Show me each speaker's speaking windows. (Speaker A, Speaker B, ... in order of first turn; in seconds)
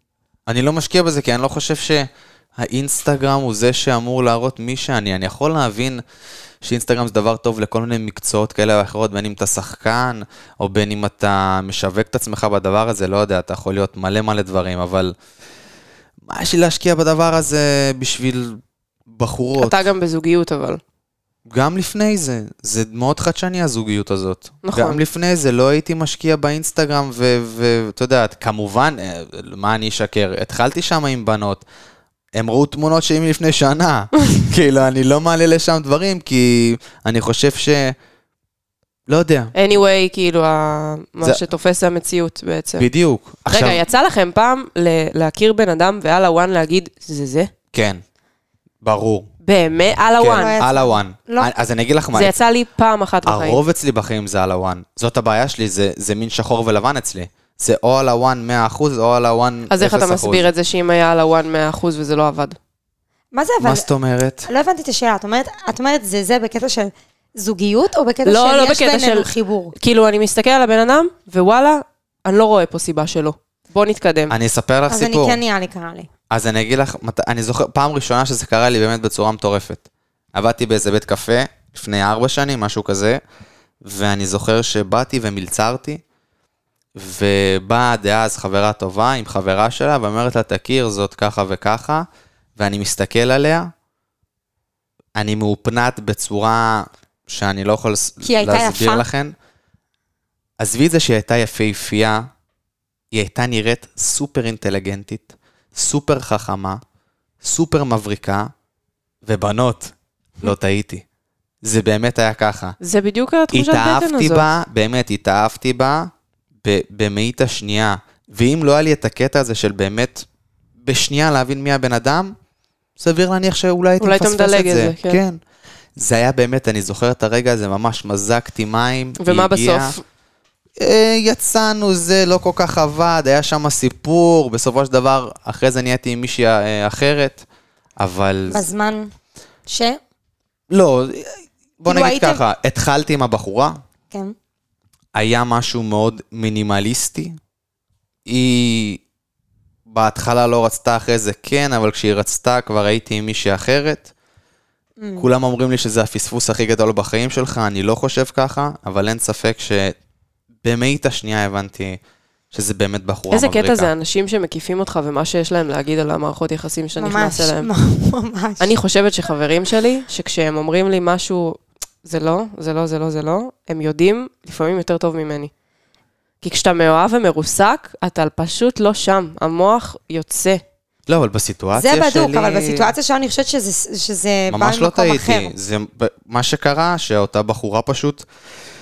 Speaker A: 0.5-2.1, 2.6-6.0, 6.6-15.2, 16.3-18.6, 19.1-19.8, 21.5-31.6, 32.4-38.0, 39.1-39.5, 42.8-43.8, 47.7-48.0, 48.8-49.3, 50.2-52.4, 53.2-60.5, 63.6-64.5, 74.3-75.4, 76.3-83.2, 83.8-86.0, 87.0-92.1, 92.6-93.7, 95.2-99.3, 100.6-102.3, 103.1-106.8, 107.4-108.5, 109.2-111.0, 111.6-112.8, 113.5-116.1, 116.6-120.3, 120.8-122.3, 123.0-125.4, 126.0-130.0, 130.8-137.4, 138.0-138.7, 140.7-143.8, 145.2-147.4, 148.3-149.0, 149.9-154.1, 155.2-159.9, 160.6-162.0, 162.5-163.9, 181.1-182.9, 184.5-188.2
Speaker B: 19.6-20.8, 24.6-25.0, 39.5-42.9, 43.5-47.5, 49.4-50.5, 52.1-53.6, 59.7-62.6, 68.2-74.3, 112.8-114.5, 124.0-125.2, 129.2-130.0, 163.3-167.7, 168.6-175.5, 176.4-180.6
Speaker C: 50.4-51.5, 63.3-63.9, 64.5-69.7, 74.9-76.1, 98.2-99.0, 138.5-139.1, 139.7-140.0, 141.9-142.4, 155.0-155.3, 167.0-168.8, 181.8-185.5